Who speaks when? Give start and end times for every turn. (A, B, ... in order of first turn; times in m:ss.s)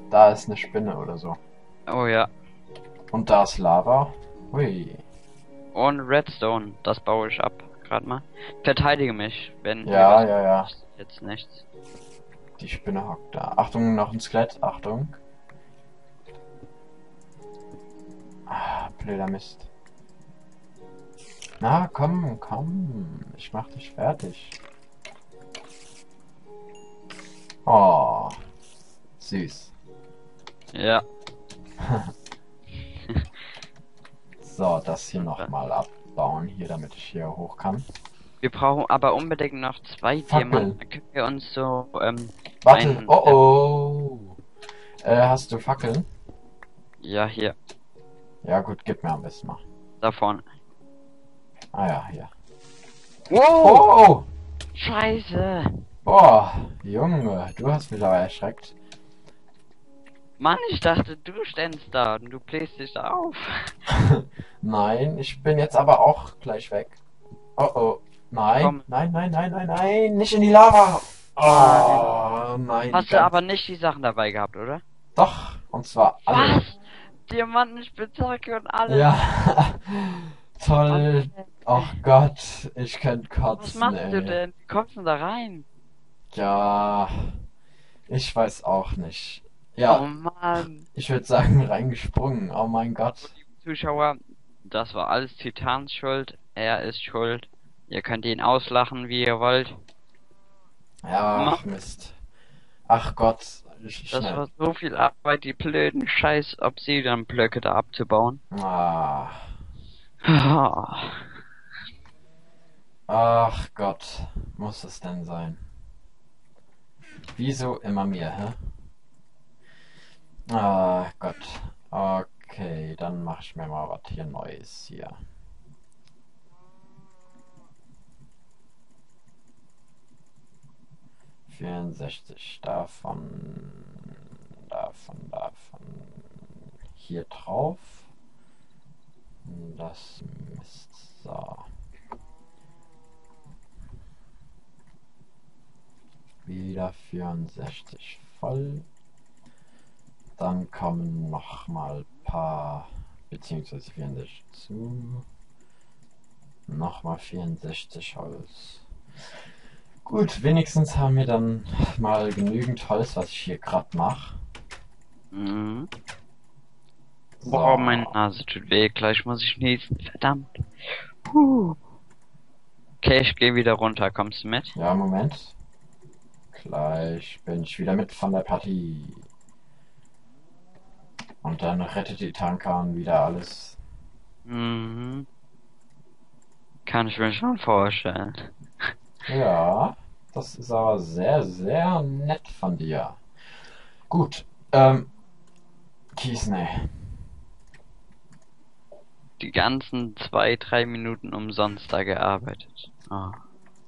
0:00.1-0:01.4 A
0:01.9-0:02.3 B
0:03.1-0:05.0 A
0:05.7-0:11.6 B
0:09.8-0:10.7 A
0:12.6-0:15.2 A
0:18.5-0:19.7 A
0:21.6-0:24.6 A
0:27.7-0:28.4 A
0:29.2-0:29.7 A
0:30.7-0:31.0 B
0:34.4-0:37.9 A
0:35.2-0:35.5 B
0:38.4-0:43.4 B
0:40.3-0:40.8 A
0:42.6-0:44.4 A
0:45.0-0:46.1 A
0:47.0-0:47.6 B
0:48.4-0:49.6 A
0:50.0-0:50.4 B
0:51.7-0:52.3 A
0:53.3-0:53.9 B
0:53.6-0:54.3 A
0:54.8-0:55.8 B
0:56.0-0:58.7 A
1:00.4-1:03.7 B
1:04.0-1:07.0 A
1:07.6-1:13.3 A
1:08.5-1:08.8 B
1:11.4-1:12.2 B
1:12.9-1:14.8 B
1:15.2-1:16.6 A
1:16.3-1:19.1 B
1:18.9-1:24.4 A
1:20.9-1:22.0 B
1:23.6-1:25.6 B
1:26.3-1:27.4 A
1:28.1-1:33.3 A
1:29.9-1:30.9 B
1:33.3-1:39.8 B
1:41.0-1:42.2 A
1:41.4-1:41.6 B
1:42.9-1:44.4 A
1:44.1-1:48.4 B
1:48.5-1:49.5 A
1:50.3-1:51.3 B
1:53.1-1:55.7 A
1:57.3-1:58.7 A
2:00.5-2:05.2 A
2:11.5-2:18.1 A
2:19.4-2:21.7 A
2:26.4-2:28.9 A
2:30.4-2:35.3 A
2:36.7-2:38.9 A
2:40.0-2:44.4 A
2:45.3-2:45.9 B
2:47.4-2:48.2 A
2:47.4-2:50.6 B
2:51.3-2:51.8 B
2:53.0-2:54.8 B
2:54.8-2:55.6 A
2:56.5-2:59.3 A
3:01.4-3:03.8 A
3:04.5-3:05.3 B
3:06.9-3:08.9 B
3:09.3-3:15.1 A
3:16.2-3:17.3 A
3:19.4-3:23.4 B